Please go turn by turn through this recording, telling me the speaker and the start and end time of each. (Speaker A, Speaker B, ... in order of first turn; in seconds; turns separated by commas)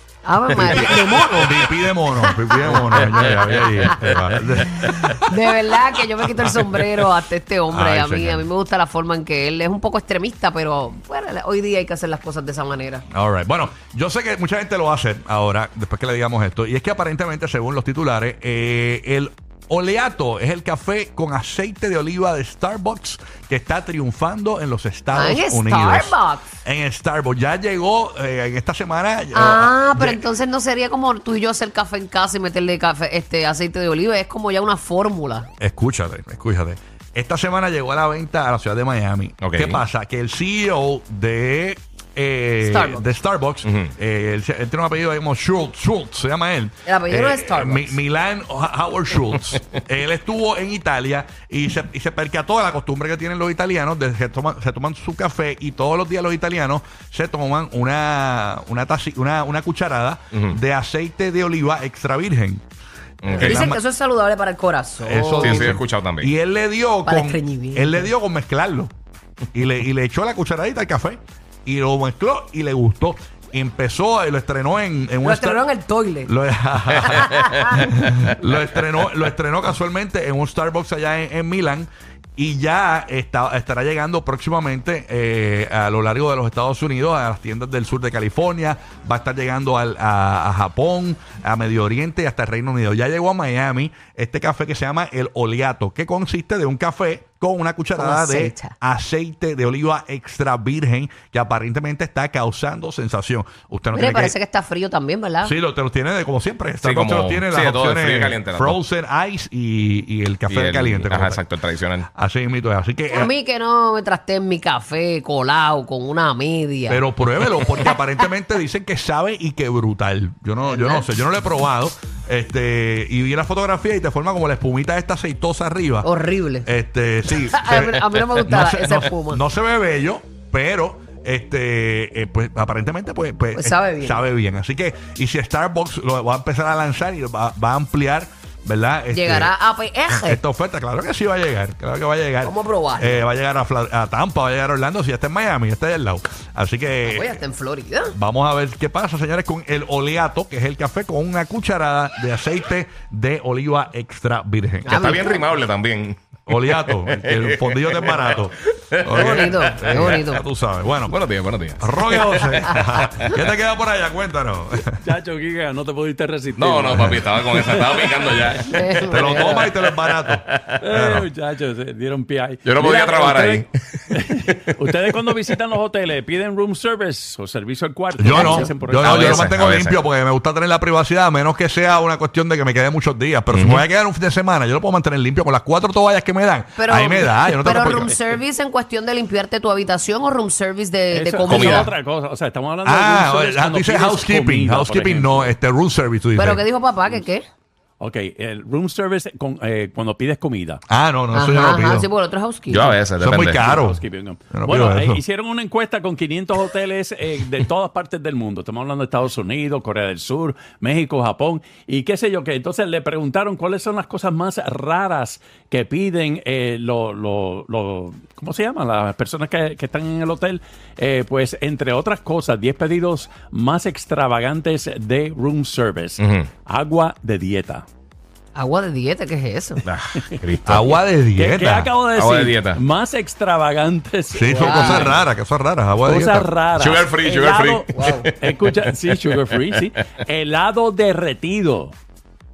Speaker A: 0.2-4.2, Speaker B: 0.5-5.2, Speaker C: 3.2-4.0, Speaker A: 4.9-13.0, Speaker B: 6.3-6.7, Speaker B: 7.7-8.4, Speaker B: 13.1-30.2, Speaker A: 25.1-26.5, Speaker A: 29.3-35.5, Speaker B: 35.6-62.6, Speaker C: 39.4-39.8, Speaker A: 42.6-43.2, Speaker C: 43.6-43.9, Speaker A: 46.9-48.0, Speaker C: 63.2-63.7, Speaker B: 63.2-63.8, Speaker A: 63.4-65.8, Speaker B: 65.0-68.9, Speaker C: 65.4-66.3, Speaker A: 67.0-68.1, Speaker B: 69.5-75.6, Speaker A: 75.2-76.3, Speaker B: 76.2-104.3, Speaker A: 77.0-77.9, Speaker A: 97.9-98.7, Speaker A: 103.9-105.5, Speaker B: 105.4-111.4, Speaker C: 106.8-108.8, Speaker C: 110.5-112.1, Speaker B: 112.1-113.3, Speaker A: 113.1-117.0, Speaker B: 116.9-126.1, Speaker A: 120.6-121.0, Speaker A: 126.0-126.7, Speaker B: 126.6-139.5, Speaker A: 127.3-129.4, Speaker A: 133.5-134.3, Speaker A: 139.1-140.4, Speaker B: 140.1-147.4, Speaker A: 142.4-143.2, Speaker A: 147.0-148.2, Speaker B: 148.1-155.1, Speaker A: 154.8-155.5, Speaker C: 154.9-160.2, Speaker B: 156.5-161.2, Speaker A: 159.1-160.4, Speaker C: 161.1-163.5, Speaker B: 161.8-165.0, Speaker D: 165.0-168.6, Speaker C: 166.6-168.7, Speaker B: 166.9-167.2, Speaker A: 168.7-169.6, Speaker B: 169.1-171.3, Speaker C: 169.9-170.8, Speaker D: 170.8-179.5, Speaker C: 172.6-173.7, Speaker C: 174.5-175.1, Speaker B: 178.2-188.1, Speaker C: 178.4-180.0, Speaker C: 183.5-183.8, Speaker A: 186.8-191.9, Speaker D: 191.1-195.5, Speaker C: 191.5-191.9, Speaker B: 192.8-196.6, Speaker A: 196.3-197.4, Speaker D: 198.0-200.8, Speaker B: 200.9-202.1, Speaker A: 201.3-203.0, Speaker C: 202.7-203.7, Speaker B: 203.2-205.2, Speaker D: 203.6-227.8, Speaker C: 226.2-226.5, Speaker A: 228.5-229.8, Speaker C: 229.8-231.0, Speaker B: 230.6-231.9, Speaker D: 231.3-235.2, Speaker C: 232.1-232.8, Speaker B: 234.3-236.5, Speaker A: 234.4-235.1, Speaker D: 236.1-237.8, Speaker C: 236.8-239.8, Speaker A: 237.9-238.3, Speaker D: 238.3-241.9